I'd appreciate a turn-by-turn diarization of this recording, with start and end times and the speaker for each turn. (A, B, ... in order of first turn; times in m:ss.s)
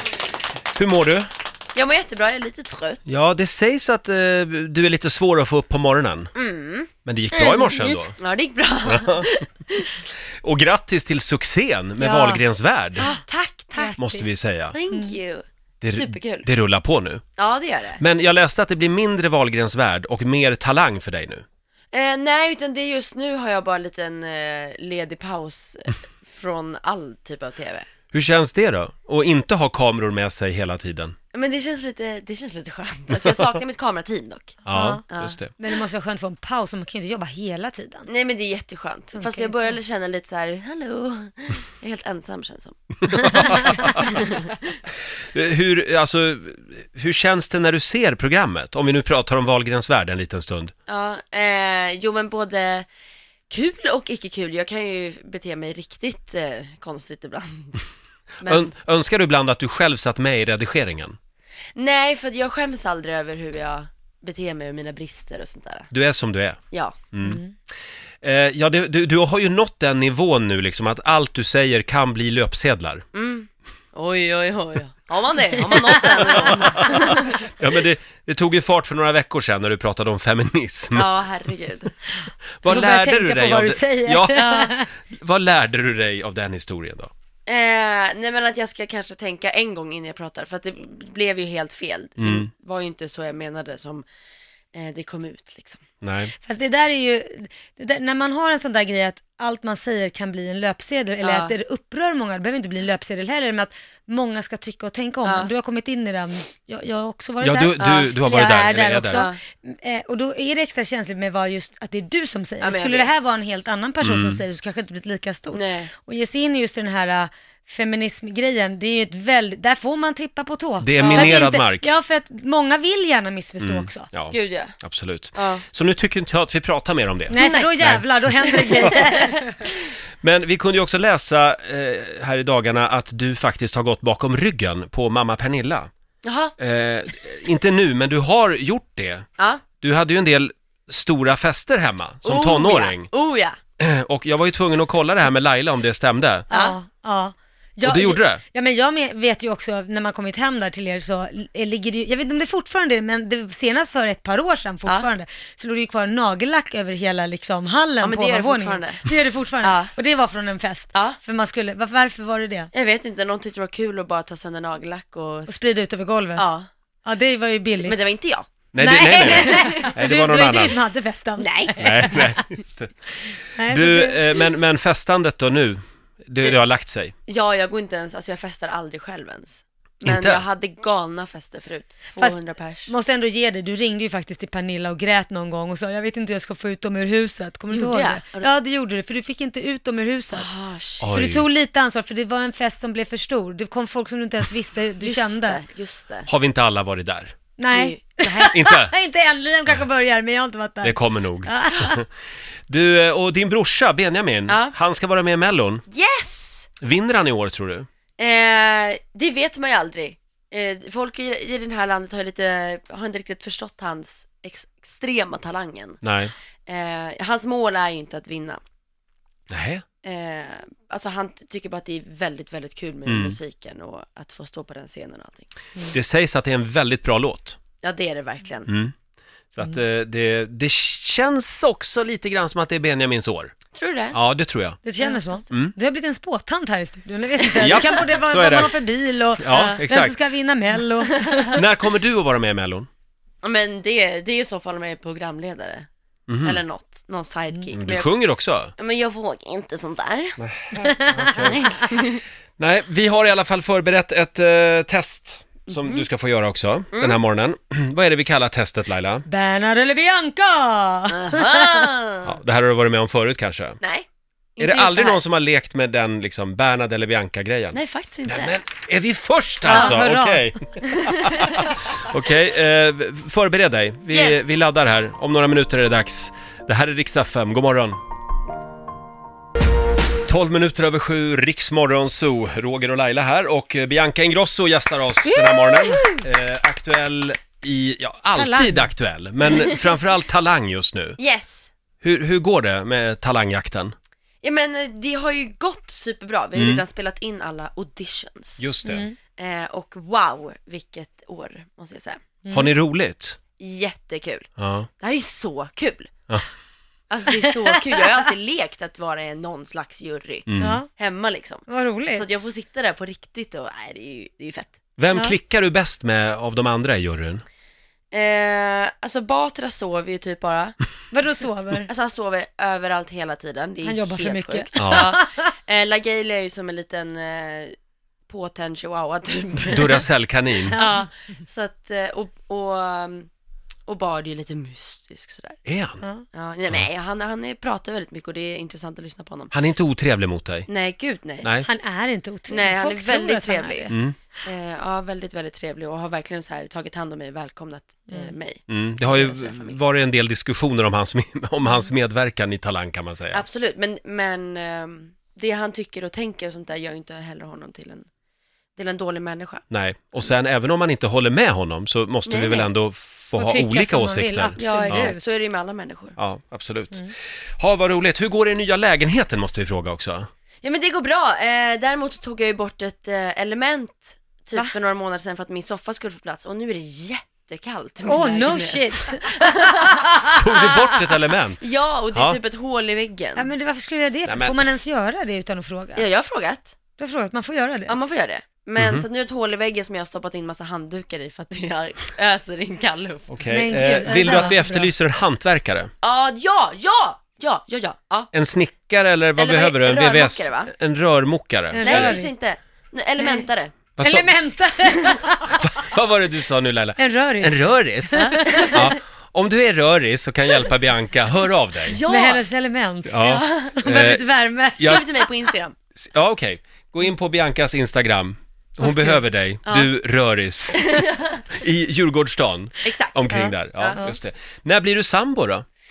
0:00.7-0:01.3 A
0:01.7-0:03.2 B
0:03.1-0:06.3 A
0:06.4-0:06.9 B
0:07.0-0:08.2 A
0:07.4-0:08.0 C
0:08.2-0:09.9 B
0:08.9-0:09.3 A
0:10.4-0:13.1 A
0:12.0-0:12.4 C
0:13.0-0:13.2 C
0:13.0-0:14.0 B
0:13.7-0:15.2 C
0:14.0-0:14.8 A
0:14.7-0:16.5 B
0:15.8-0:17.2 A
0:17.4-0:18.0 B
0:18.0-0:21.4 A
0:21.9-0:27.9 B
0:28.1-0:31.2 A
0:31.3-0:35.4 B
0:34.7-0:35.5 A
0:34.7-0:38.1 C
0:38.1-0:44.6 B
0:39.1-0:39.8 C
0:43.1-0:44.1 A
0:45.3-0:50.7 A
0:50.9-0:52.9 B
0:53.5-0:57.8 B
0:58.4-0:58.7 B
0:58.4-1:01.2 A
1:01.8-1:05.9 B
1:05.9-1:06.6 A
1:06.7-1:07.1 B
1:07.1-1:07.4 A
1:07.2-1:07.5 C
1:08.2-1:13.0 A
1:13.1-1:17.4 B
1:15.8-1:16.3 C
1:16.3-1:21.1 A
1:20.9-1:21.9 B
1:22.6-1:24.5 A
1:22.7-1:24.9 C
1:24.3-1:24.7 B
1:25.0-1:27.1 A
1:27.5-1:34.1 B
1:32.2-1:32.5 A
1:34.8-1:35.8 B
1:36.0-1:36.3 A
1:36.4-2:04.1 C
1:41.2-1:41.6 B
1:45.2-1:45.5 B
1:47.4-1:49.3 A
1:47.8-1:48.2 B
1:49.1-1:49.4 B
1:52.6-1:53.2 B
1:54.0-1:54.4 A
1:55.5-1:55.9 B
2:00.8-2:02.0 A
2:01.0-2:01.4 B
2:03.6-2:08.0 A
2:04.3-2:04.8 B
2:05.4-2:05.6 B
2:07.3-2:09.5 C
2:07.3-2:07.7 B
2:08.4-2:09.7 B
2:10.2-2:15.9 A
2:16.2-2:16.6 B
2:16.6-2:19.2 A
2:19.4-2:19.7 B
2:19.8-2:23.1 A
2:22.2-2:23.6 B
2:23.8-2:26.5 A
2:26.5-2:42.7 C
2:26.5-2:26.8 B
2:27.8-2:28.4 A
2:38.0-2:39.9 B
2:40.9-2:41.2 B
2:42.7-2:45.6 B
2:45.5-2:46.5 C
2:46.4-2:46.7 B
2:47.0-2:48.0 C
2:47.8-2:50.0 B
2:48.7-2:50.8 A
2:48.8-2:52.3 C
2:51.4-2:52.4 B
2:51.8-2:52.9 A
2:53.6-2:54.4 C
2:53.7-2:57.1 A
2:57.3-3:02.9 B
3:00.0-3:00.4 A
3:02.2-3:10.5 C
3:07.7-3:08.5 B
3:10.3-3:11.1 B
3:11.0-3:11.5 A
3:11.1-3:15.6 C
3:15.0-3:16.3 B
3:16.3-3:17.3 A
3:17.6-3:22.0 C
3:17.7-3:18.7 B
3:18.5-3:18.9 A
3:20.8-3:22.0 A
3:22.7-3:25.8 A
3:24.5-3:24.7 B
3:25.9-3:26.7 B
3:26.8-3:27.9 A
3:28.2-3:36.0 B
3:36.0-3:36.3 A
3:36.7-3:38.6 B
3:39.5-3:39.8 A
3:40.0-3:45.5 B
3:43.1-3:43.4 A
3:45.9-3:47.6 A
3:47.8-3:48.7 B
3:48.7-3:48.9 A
3:49.5-3:53.5 A
3:53.7-3:54.2 B
3:54.1-3:54.8 A
3:54.8-4:01.6 C
3:55.0-3:55.5 B
3:57.5-3:58.0 B
3:57.6-3:58.8 A
3:59.4-4:00.3 A
3:59.5-3:59.8 B
4:01.0-4:01.6 B
4:01.5-4:02.9 A
4:03.4-4:05.9 B
4:06.3-4:06.6 A
4:06.4-4:08.1 B
4:07.7-4:08.7 A
4:08.8-4:10.4 B
4:10.4-4:11.8 A
4:10.8-4:11.3 C
4:11.5-4:12.2 B
4:12.6-4:19.3 A
4:15.7-4:16.1 B
4:16.9-4:17.2 B
4:19.3-4:21.9 C
4:21.1-4:22.4 B
4:22.2-4:23.8 A
4:23.8-4:25.2 B
4:24.6-4:38.0 A
4:27.7-4:28.6 B
4:29.6-4:30.5 C
4:29.7-4:30.0 B
4:30.8-4:31.8 B
4:34.1-4:34.4 B
4:40.3-4:51.2 A
4:45.2-4:46.3 B
4:48.3-4:48.9 C
4:49.5-4:49.9 B
4:51.2-4:51.7 B
4:52.0-4:53.9 A
4:54.4-4:58.7 B
4:56.6-4:56.8 A
4:58.6-4:59.1 A
4:58.8-4:59.2 C
4:59.4-5:02.2 B
5:02.4-5:02.7 C
5:02.5-5:03.4 A
5:03.6-5:06.1 B
5:04.6-5:04.9 A
5:07.1-5:14.8 B
5:10.5-5:10.8 A
5:10.6-5:10.9 C
5:11.7-5:12.3 C
5:15.0-5:17.4 A
5:18.1-5:20.8 B
5:21.1-5:21.9 C
5:21.8-5:27.7 B
5:23.8-5:25.5 C
5:24.8-5:25.1 A
5:28.3-5:30.1 B
5:29.7-5:30.8 A
5:30.6-5:31.1 C
5:30.8-5:33.3 B
5:33.9-5:35.6 B
5:35.7-5:36.0 A
5:36.3-5:39.5 B
5:39.5-5:40.7 A
5:40.7-5:41.6 B
5:41.6-5:44.0 C
5:42.5-5:43.9 B
5:43.9-5:44.2 A
5:44.4-5:49.8 B
5:48.1-5:48.3 C
5:48.7-5:53.4 A
5:53.3-5:58.1 B
5:58.8-5:59.6 B
5:59.7-6:05.1 A
6:02.2-6:02.7 B
6:03.3-6:05.3 C
6:04.6-6:06.2 B
6:06.2-6:10.3 A
6:10.6-6:20.0 B
6:18.0-6:21.0 C
6:20.2-6:21.6 A
6:21.6-6:23.5 B
6:23.4-6:26.1 C
6:24.3-6:24.7 A
6:26.0-6:26.8 B
6:26.9-6:28.0 C
6:27.9-6:34.6 B
6:28.8-6:29.0 A
6:33.3-6:35.9 A
6:33.5-6:34.9 C
6:36.0-6:38.3 B
6:38.3-6:42.2 A
6:39.4-6:40.7 B
6:41.7-6:42.3 C
6:41.8-6:43.9 B
6:43.2-6:45.8 C
6:44.0-6:44.4 A
6:44.9-6:45.2 B
6:45.6-6:52.0 A
6:47.0-6:48.9 C
6:48.2-6:49.0 B
6:51.9-6:52.4 B
6:52.1-6:55.1 C
6:53.1-6:54.3 A
6:53.3-6:53.8 B
6:54.8-6:55.1 A
6:54.8-6:55.8 B
6:56.0-7:00.9 A
6:58.8-6:59.3 C
6:59.6-6:59.9 B
7:00.7-7:01.4 B
7:01.5-7:05.6 A
7:02.8-7:04.0 B
7:03.3-7:04.2 C